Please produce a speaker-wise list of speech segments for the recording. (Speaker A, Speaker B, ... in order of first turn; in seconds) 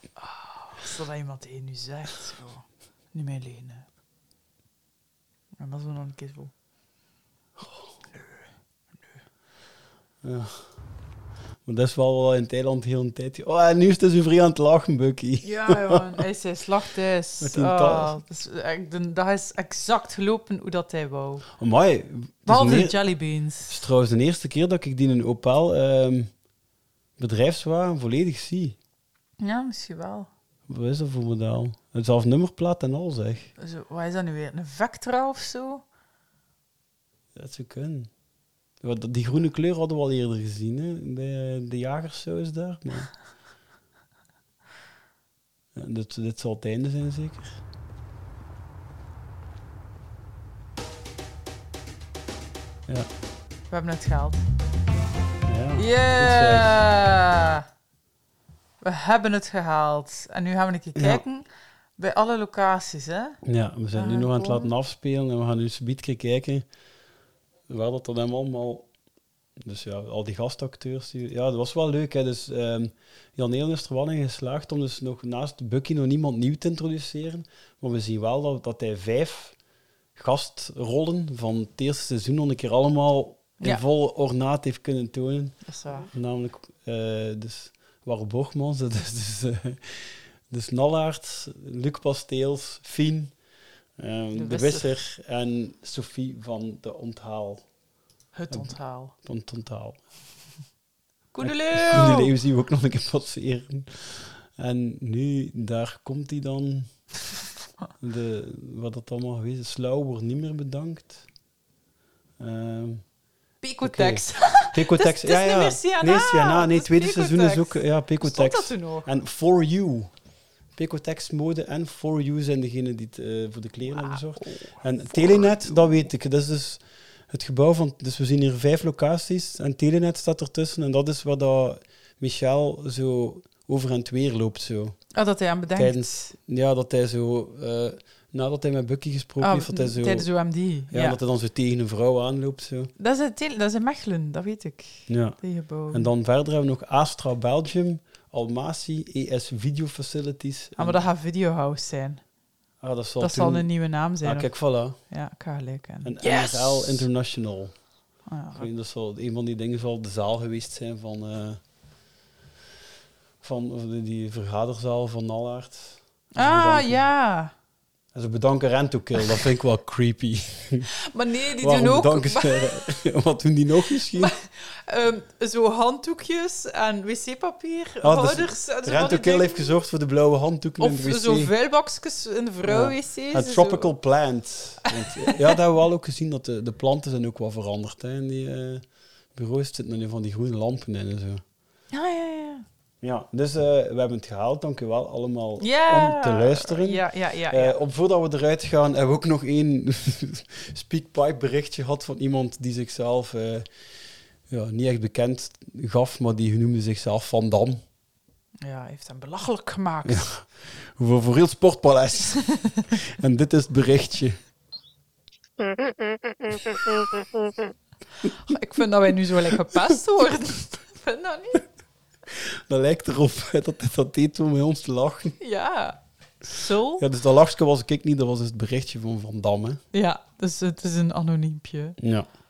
Speaker A: 0.2-3.9, 5.6-6.5, 15.4-21.4, 22.5-23.8, 29.4-30.3, 33.6-35.8, 53.7-54.4, 55.8-57.6, 58.8-61.4, 62.0-63.4, 63.9-64.7, 85.6-86.1, 94.3-94.9, 98.3-99.1, 101.3-102.3, 113.6-119.1, 123.9-124.2, 125.1-125.5, 135.1-136.3, 139.4-141.2, 143.0-146.1, 150.8-152.2, 153.2-157.1, 158.3-158.7, 166.3-167.5, 171.1-172.8, 174.1-179.7, 180.8-183.9, 185.2-185.6, 191.9-192.6, 195.6-197.8, 208.6-210.3, 218.2-221.7, 225.4-227.0, 229.9-232.0
Speaker B: 10.2-10.7, 11.6-16.2, 17.4-18.2, 21.6-23.0, 23.7-26.3, 27.2-28.8, 30.7-33.5, 37.3-38.1, 38.8-43.1, 45.7-47.6, 55.5-56.8, 60.9-61.2, 63.4-66.7, 67.7-68.9, 69.6-79.5, 80.2-93.3, 94.0-97.6, 98.5-100.0, 101.4-106.9, 108.0-111.2, 112.4-113.0, 113.8-120.1, 120.7-135.0, 135.7-140.3, 140.9-142.9, 145.1-151.0, 152.8-155.0, 156.0-157.7, 158.5-161.6, 163.4-167.0, 168.1-170.9, 171.6-174.3, 178.0-181.5, 182.7-188.8, 189.3-191.4, 193.0-203.7, 204.5-207.8, 210.0-214.4, 222.3-225.4, 227.0-229.8, 232.0-232.3